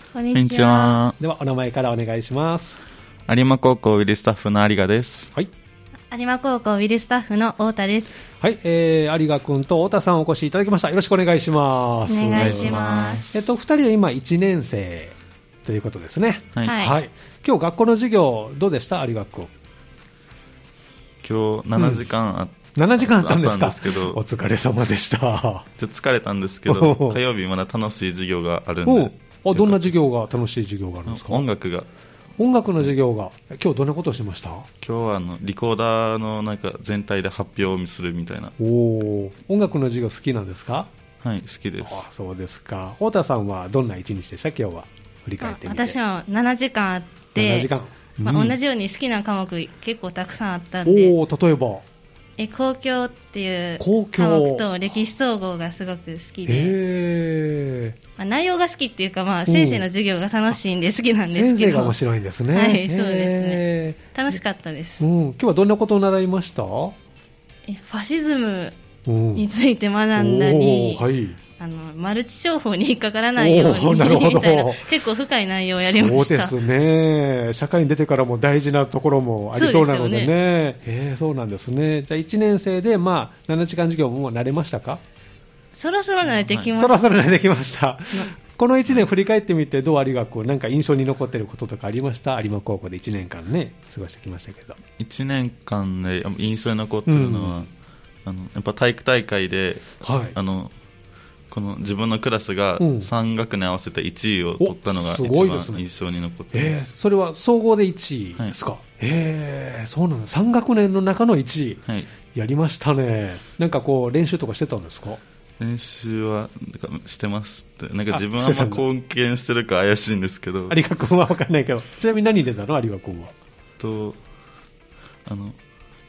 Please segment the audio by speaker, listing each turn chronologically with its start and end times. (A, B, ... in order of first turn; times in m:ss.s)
0:00.1-0:01.0 A
0:00.3-0:01.2 B
0:01.2-0:02.8 C
0:03.3-0:05.3 B
0:06.1-0:08.1 A
0:08.4-0:12.8 C
0:12.1-0:13.2 A
0:12.3-0:13.4 B
0:13.3-0:19.5 C
0:16.6-0:16.9 A
0:21.2-0:24.2 B
0:21.8-0:22.0 C
0:22.8-0:25.7 C
0:25.8-0:29.9 B
0:26.6-0:27.2 C
0:28.8-0:31.4 C
0:31.1-0:31.8 B
0:32.4-0:34.7 C
0:34.8-0:38.5 B
0:38.6-0:40.9 C
0:41.2-0:42.0 B
0:41.8-0:46.0 C
0:45.4-0:47.7 A
0:47.3-0:48.6 C
0:48.2-0:51.1 A
0:50.8-0:51.8 C
0:52.4-0:56.8 A
0:53.8-0:54.6 C
0:56.4-0:58.0 C
0:58.2-1:02.0 A
0:59.5-0:59.8 C
1:01.3-1:04.0 C
1:02.5-1:05.0 A
1:05.0-1:06.9 C
1:07.7-1:08.7 A
1:09.0-1:09.4 C
1:09.3-1:11.0 A
1:10.2-1:11.4 C
1:11.6-1:16.6 A
1:13.4-1:14.9 C
1:15.8-1:25.0 C
1:19.5-1:20.3 A
1:25.7-1:27.0 A
1:26.7-1:34.8 C
1:35.0-1:37.7 B
1:37.1-1:37.7 C
1:38.2-1:40.7 B
1:40.0-1:40.4 C
1:41.5-1:46.8 B
1:42.8-1:43.1 C
1:44.6-1:45.8 C
1:46.5-1:55.2 C
1:55.6-2:00.8 B
1:58.1-1:58.8 C
2:00.7-2:03.3 C
2:03.8-2:04.2 B
2:05.2-2:05.6 B